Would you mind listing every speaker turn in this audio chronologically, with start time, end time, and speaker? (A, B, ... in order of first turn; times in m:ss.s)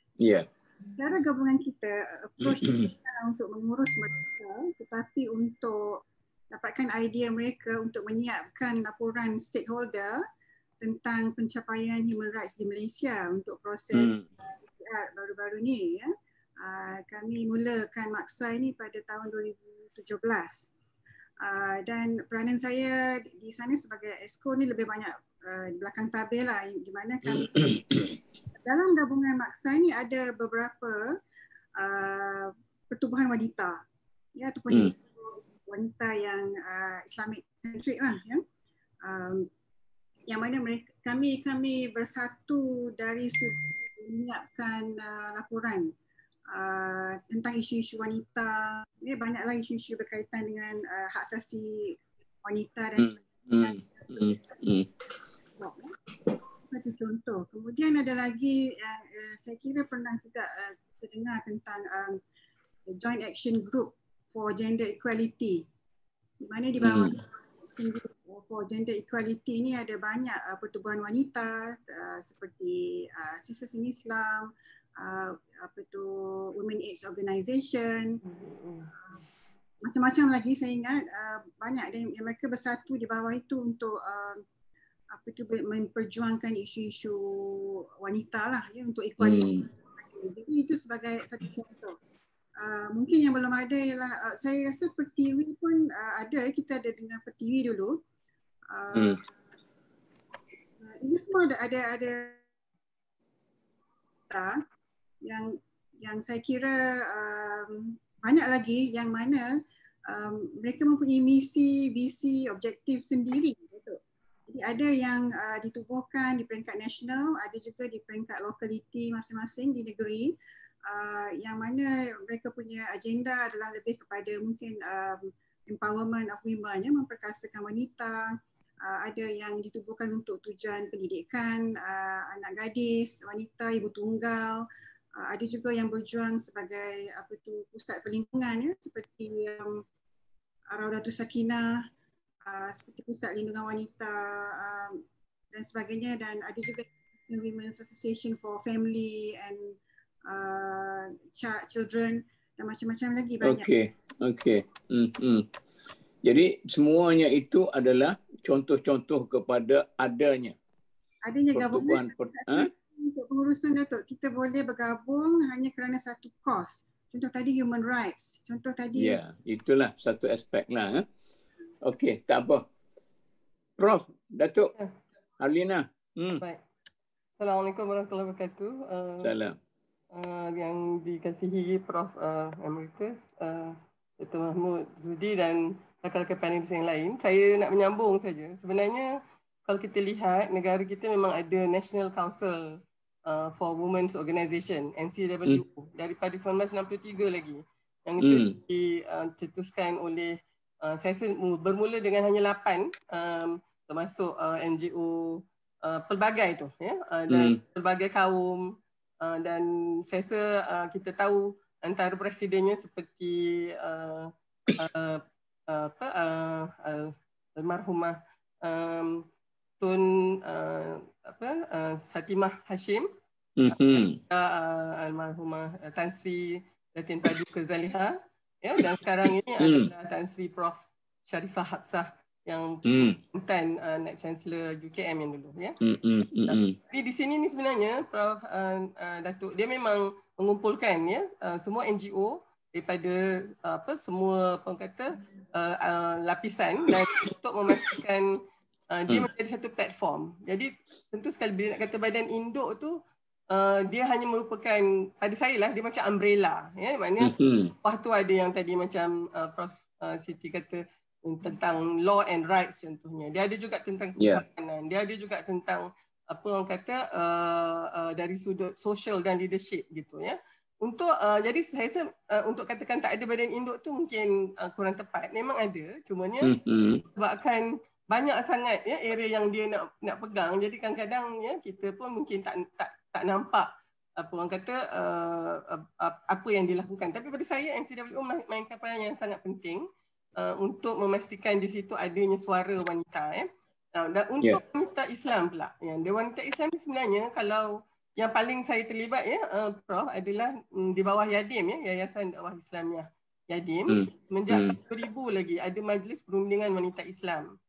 0:00.2-0:00.5 A
0:01.0-0:06.0 B
0:02.4-0:02.9 A
0:06.5-0:10.2 B
0:10.8-0:14.1 B
0:13.9-0:14.3 A
0:14.7-0:16.1 B
0:16.6-0:20.7 B
0:21.4-0:27.8 B
0:27.2-0:28.1 A
0:28.6-0:31.1 B
0:31.8-0:33.8 B
0:34.3-0:38.4 B
0:39.0-0:39.5 B
0:40.3-0:45.9 B
0:46.5-0:54.3 B
0:53.0-0:54.9 A
0:55.6-0:55.9 B
0:56.7-1:02.2 B
1:02.9-1:05.6 B
1:06.4-1:18.2 B
1:06.8-1:07.2 A
1:18.2-1:18.9 C
1:19.8-1:24.4 B
1:25.1-1:32.0 B
1:29.2-1:29.7 A
1:32.6-1:38.0 B
1:38.7-1:39.2 B
1:40.8-1:42.4 B
1:44.3-1:44.6 B
1:45.2-1:49.5 B
1:50.1-2:00.3 B
2:00.8-2:14.6 B
2:15.2-2:19.8 B
2:20.7-2:21.9 B
2:22.5-2:25.0 B
2:25.5-2:33.7 B
2:33.4-2:35.5 A
2:36.2-2:40.6 A
2:41.2-2:49.2 B
2:41.5-2:42.7 A
2:49.0-2:51.0 A
2:51.8-2:52.6 A
2:53.8-2:54.7 A
2:55.4-2:56.4 A
2:57.4-2:59.3 C
2:59.2-2:59.6 A
3:00.1-3:39.2 C
3:18.2-3:18.6 A
3:27.3-3:27.6 A
3:39.8-3:43.1 C
3:43.6-3:44.2 A
3:43.7-3:55.8 C
3:49.6-3:49.9 A
3:52.8-3:53.2 A
3:55.8-3:56.8 A
3:56.5-4:08.3 C
4:07.7-4:08.0 A
4:08.9-4:13.0 C
4:13.5-4:36.6 C
4:17.2-4:17.7 A
4:36.4-4:37.0 A
4:37.2-4:49.8 C
4:50.4-5:07.5 C
5:03.9-5:04.8 A